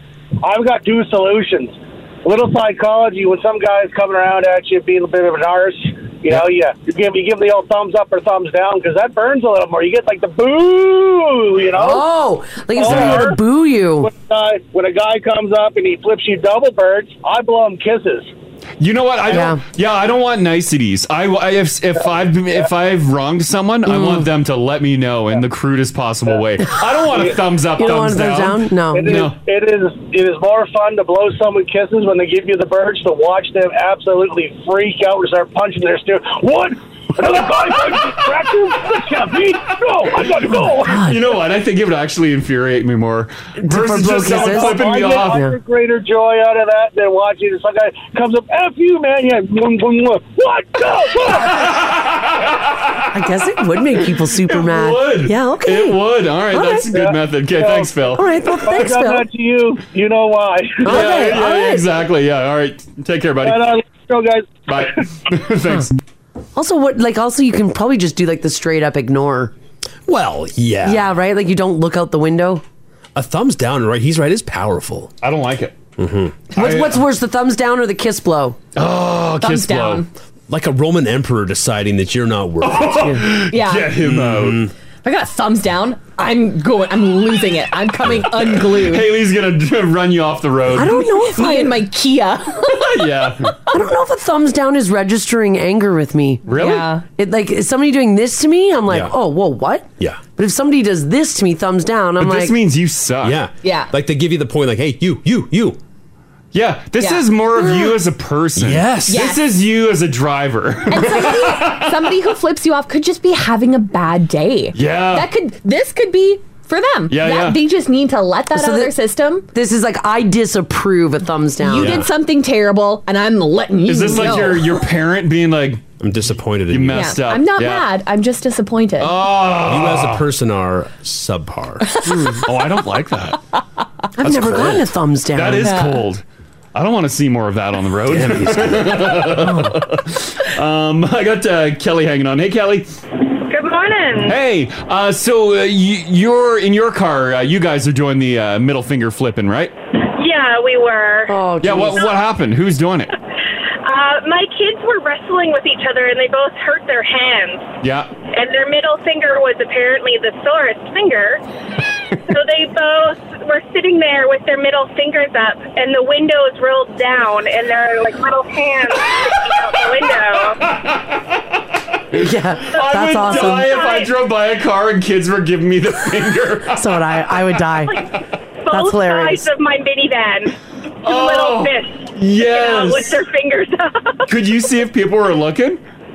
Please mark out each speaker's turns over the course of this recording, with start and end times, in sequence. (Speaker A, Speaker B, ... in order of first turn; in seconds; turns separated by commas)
Speaker A: 0.4-12.1, Speaker B: 11.8-14.1, Speaker A: 12.7-13.4, Speaker C: 12.9-13.2, Speaker A: 14.0-18.3, Speaker C: 18.8-29.4, Speaker B: 19.3-19.6, Speaker B: 23.9-24.3, Speaker A: 27.1-27.4, Speaker B: 27.8-29.1, Speaker A: 28.9-41.1, Speaker B: 40.8-41.2, Speaker C: 40.9-45.4, Speaker B: 43.6-45.5, Speaker A: 44.2-51.8, Speaker C: 51.4-53.1, Speaker B: 53.1-56.0, Speaker C: 54.5-58.3, Speaker B: 56.5-56.9, Speaker A: 56.9-57.9, Speaker B: 58.1-59.2, Speaker A: 58.6-61.4, Speaker B: 60.8-61.9, Speaker C: 60.9-63.7, Speaker A: 63.4-64.9, Speaker C: 64.7-65.9, Speaker B: 66.5-69.5, Speaker D: 70.1-71.1, Speaker B: 70.8-72.6, Speaker D: 73.1-75.1, Speaker C: 75.2-75.7, Speaker D: 76.0-76.4, Speaker B: 76.5-78.6, Speaker C: 76.5-77.0, Speaker C: 78.7-80.0, Speaker E: 79.4-80.1, Speaker D: 80.5-83.3, Speaker C: 82.6-84.7, Speaker E: 83.5-84.0, Speaker D: 84.0-84.7, Speaker E: 85.0-89.1, Speaker C: 88.7-91.1, Speaker B: 90.7-91.8, Speaker E: 91.0-93.1, Speaker C: 92.9-93.5, Speaker B: 93.7-96.5, Speaker C: 96.5-96.9, Speaker E: 96.5-97.0, Speaker B: 97.2-102.5, Speaker C: 102.2-103.4, Speaker D: 103.2-105.8, Speaker E: 103.6-103.9, Speaker C: 106.5-112.1, Speaker E: 107.0-107.2, Speaker D: 108.5-109.3, Speaker E: 109.1-109.5, Speaker E: 110.9-119.5, Speaker C: 114.7-115.3, Speaker C: 117.1-117.6, Speaker B: 118.5-118.9, Speaker B: 119.5-122.0, Speaker E: 121.6-124.9, Speaker D: 121.7-122.1, Speaker C: 123.8-125.8, Speaker D: 126.0-127.2, Speaker C: 126.7-127.9, Speaker E: 126.9-129.2, Speaker C: 129.0-130.2, Speaker D: 129.6-131.8, Speaker E: 131.9-132.5, Speaker B: 132.1-132.4, Speaker C: 132.4-133.4, Speaker B: 134.2-135.8, Speaker C: 134.2-136.2, Speaker E: 135.6-136.0, Speaker C: 136.7-142.9, Speaker D: 138.1-139.5, Speaker B: 139.4-139.8, Speaker F: 143.4-144.3, Speaker C: 144.2-149.7, Speaker F: 150.1-151.3, Speaker B: 151.3-152.0, Speaker C: 151.6-153.1, Speaker F: 153.8-157.7, Speaker C: 157.8-158.1, Speaker F: 158.3-161.4, Speaker F: 162.3-170.6, Speaker C: 170.3-171.6, Speaker C: 172.1-177.1, Speaker B: 172.1-173.8, Speaker F: 172.8-174.2, Speaker B: 176.7-178.0, Speaker F: 177.8-184.3, Speaker B: 178.7-179.5, Speaker C: 181.0-183.2, Speaker C: 184.3-185.8